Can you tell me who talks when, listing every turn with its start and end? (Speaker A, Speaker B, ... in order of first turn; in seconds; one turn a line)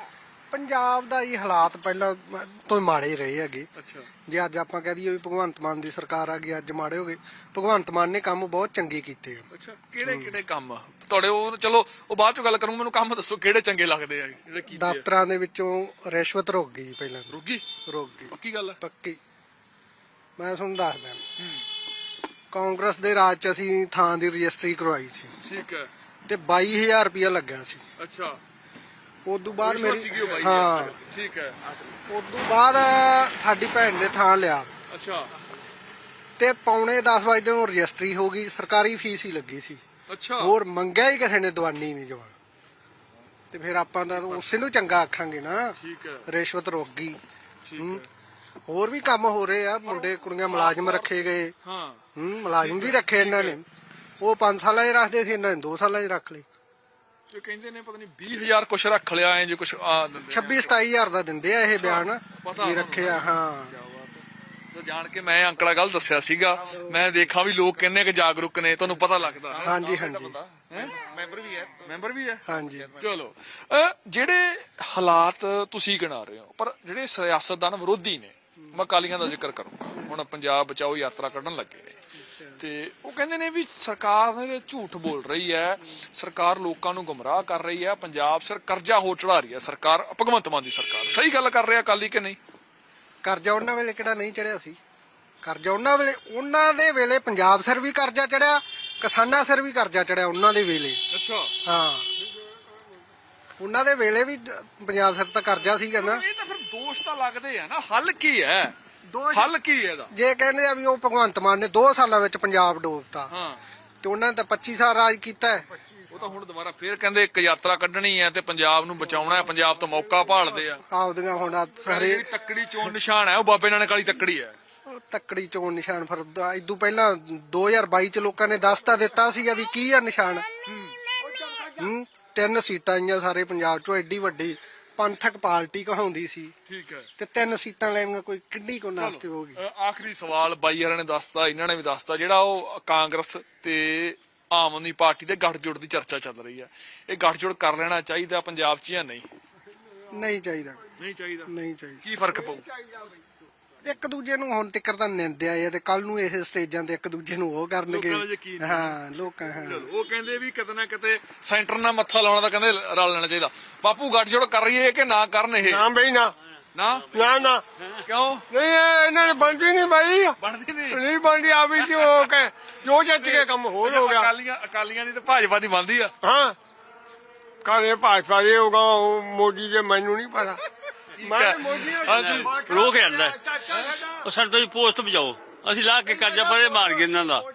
Speaker A: 0.5-3.7
Speaker B: 3.8-4.1
Speaker A: 4.3-9.5
Speaker B: 9.5-15.0
Speaker A: 10.0-10.3
Speaker A: 14.7-17.3
Speaker B: 17.3-17.6
Speaker A: 17.9-19.2
Speaker B: 18.3-18.8
Speaker A: 20.4-21.2
Speaker B: 21.4-21.6
Speaker A: 22.5-25.3
Speaker B: 25.4-25.9
Speaker A: 26.2-27.8
Speaker B: 28.0-28.4
Speaker A: 29.2-30.9
Speaker B: 29.6-31.7
Speaker A: 32.1-34.7
Speaker B: 34.9-35.3
Speaker A: 36.4-39.8
Speaker B: 40.1-40.5
Speaker A: 40.4-42.3
Speaker A: 43.5-45.7
Speaker B: 44.1-44.5
Speaker B: 45.8-46.2
Speaker A: 46.3-47.2
Speaker B: 47.6-48.0
Speaker A: 47.8-48.0
Speaker A: 48.7-51.5
Speaker B: 49.9-51.1
Speaker B: 51.6-52.0
Speaker A: 52.1-53.6
Speaker B: 52.5-53.6
Speaker A: 54.2-56.4
Speaker B: 57.3-60.7
Speaker A: 60.3-63.7
Speaker B: 61.7-69.8
Speaker C: 69.6-71.8
Speaker A: 69.6-70.4
Speaker B: 70.7-70.9
Speaker B: 71.8-72.4
Speaker A: 72.5-72.9
Speaker B: 73.0-82.0
Speaker A: 82.2-82.5
Speaker B: 82.6-92.4
Speaker A: 93.2-94.8
Speaker A: 95.4-101.0
Speaker B: 101.1-101.5
Speaker A: 101.7-102.0
Speaker A: 103.6-106.2
Speaker B: 106.0-108.7
Speaker A: 109.1-109.5
Speaker B: 109.3-110.1
Speaker A: 110.1-113.3
Speaker B: 113.3-113.6
Speaker A: 114.0-115.6
Speaker B: 116.1-120.8
Speaker A: 120.9-122.2
Speaker B: 121.9-124.5
Speaker A: 124.9-130.5
Speaker B: 130.7-130.9
Speaker A: 131.8-136.5
Speaker B: 136.7-137.1
Speaker A: 137.2-139.6
Speaker B: 139.0-149.3
Speaker A: 150.1-150.8
Speaker B: 151.0-151.5
Speaker A: 151.4-152.0
Speaker B: 152.0-152.6
Speaker A: 153.8-159.9
Speaker B: 157.9-158.9
Speaker B: 159.6-165.9
Speaker D: 165.6-166.3
Speaker B: 166.8-167.3
Speaker D: 167.1-167.6
Speaker B: 168.0-168.4
Speaker D: 168.5-170.4
Speaker B: 170.4-171.0
Speaker D: 170.9-174.3
Speaker B: 171.8-172.3
Speaker B: 173.2-176.1
Speaker D: 176.2-176.6
Speaker D: 177.6-180.6
Speaker B: 181.2-182.7
Speaker D: 181.2-183.1
Speaker E: 182.1-183.4
Speaker D: 183.7-184.0
Speaker E: 184.1-187.5